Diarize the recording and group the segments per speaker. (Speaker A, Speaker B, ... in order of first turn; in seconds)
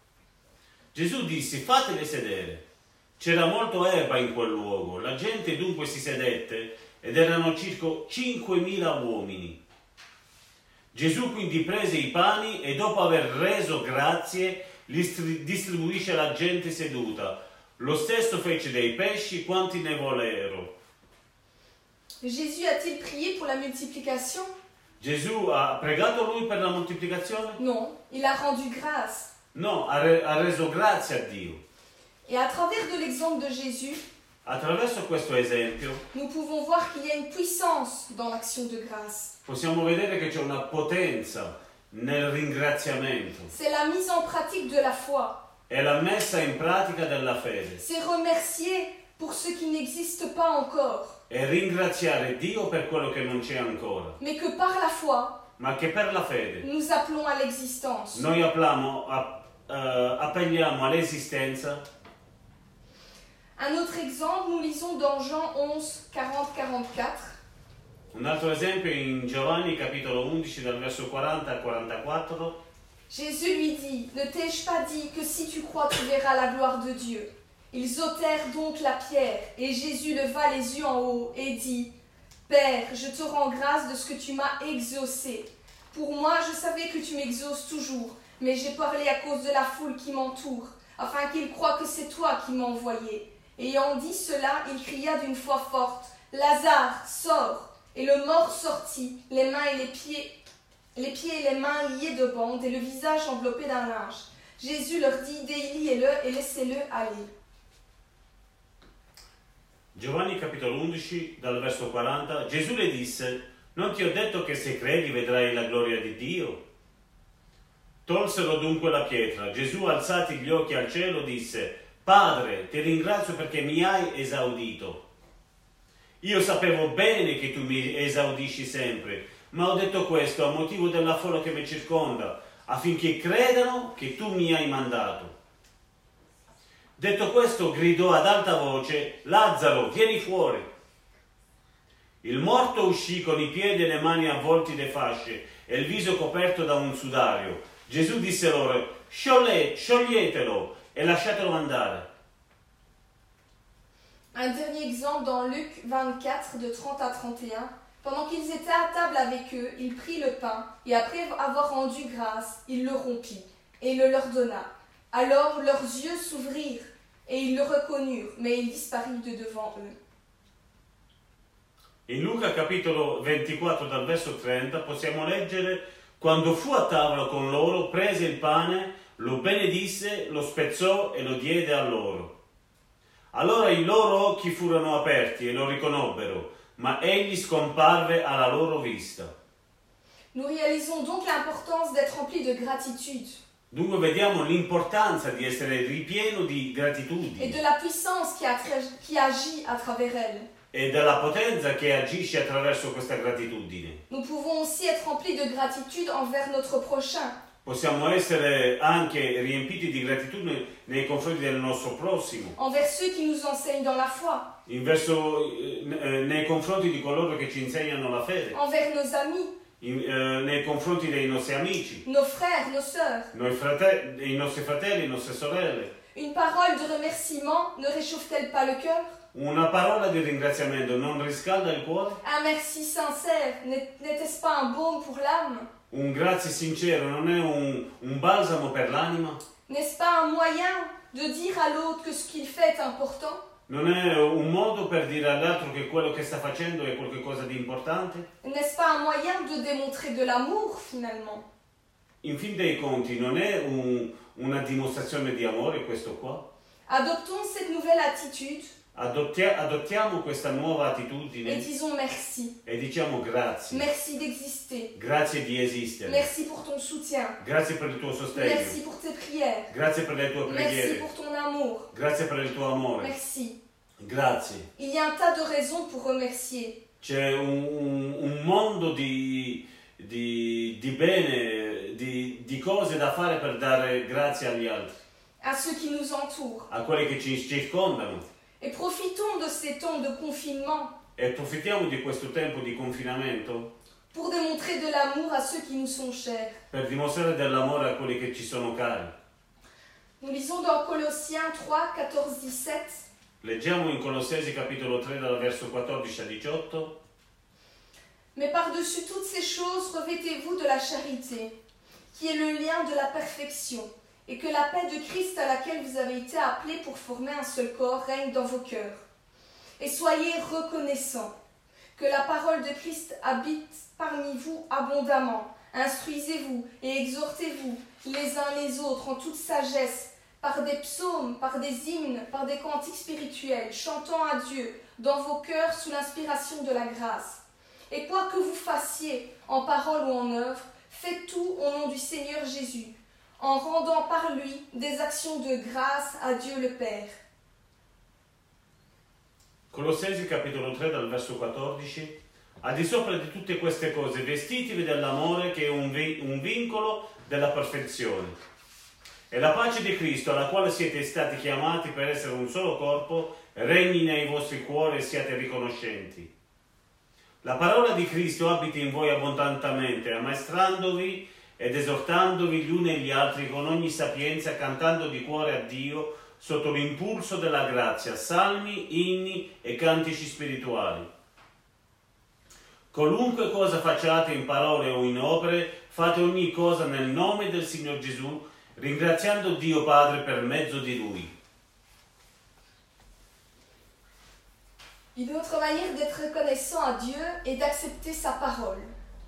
Speaker A: 0.9-2.6, 3.2-9.6, 10.9-20.7, 25.0-27.6, 29.5-31.6, 34.4-36.0, 39.4-43.5, 45.7-47.8, 51.3-54.1, 55.6-56.6, 58.1-61.8, 68.1-72.5, 109.9-116.6, 118.0-125.0, 126.2-135.3, 137.0-140.7, 142.2-152.1, 172.1-182.3, 183.3-189.3, 193.7-197.6, 200.7-204.0, 207.6-212.5, 214.7-218.6, 219.8-222.0, 223.3-225.9, 229.3-232.2, 235.9-239.4, 243.7-248.2, 252.2-256.4, 258.9-261.6, 262.6-263.9, 264.9-266.3, 267.4-268.8, 269.7-271.1, 271.9-273.1, 274.0-274.7, 277.0-284.9, 286.7-288.2, 291.1-293.7, 296.7-299.1, 303.4-306.9, 349.7-358.4, 359.3-366.3, 367.4-381.1, 382.9-391.3
Speaker B: 22.2-24.5, 27.6-29.3, 32.2-34.0, 36.1-39.3, 43.5-45.4, 47.8-51.2, 54.2-55.4, 56.6-58.2, 63.6-67.3, 73.1-81.9, 82.5-100.3, 100.9-107.3, 154.3-169.9, 190.3-193.4, 197.4-200.5, 204.1-207.3, 212.6-214.5, 218.5-219.5, 222.0-223.3, 226.1-229.2, 232.2-235.7, 239.7-243.4, 248.4-251.4, 256.9-258.7, 261.4-262.5, 263.7-264.9, 266.0-267.4, 268.3-269.7, 270.4-271.9, 273.0-273.6, 274.8-276.8, 285.4-286.7, 288.6-290.9, 294.1-296.6, 300.2-303.0, 308.3-311.5, 312.1-319.0, 319.8-321.3, 321.9-347.2, 395.1-398.9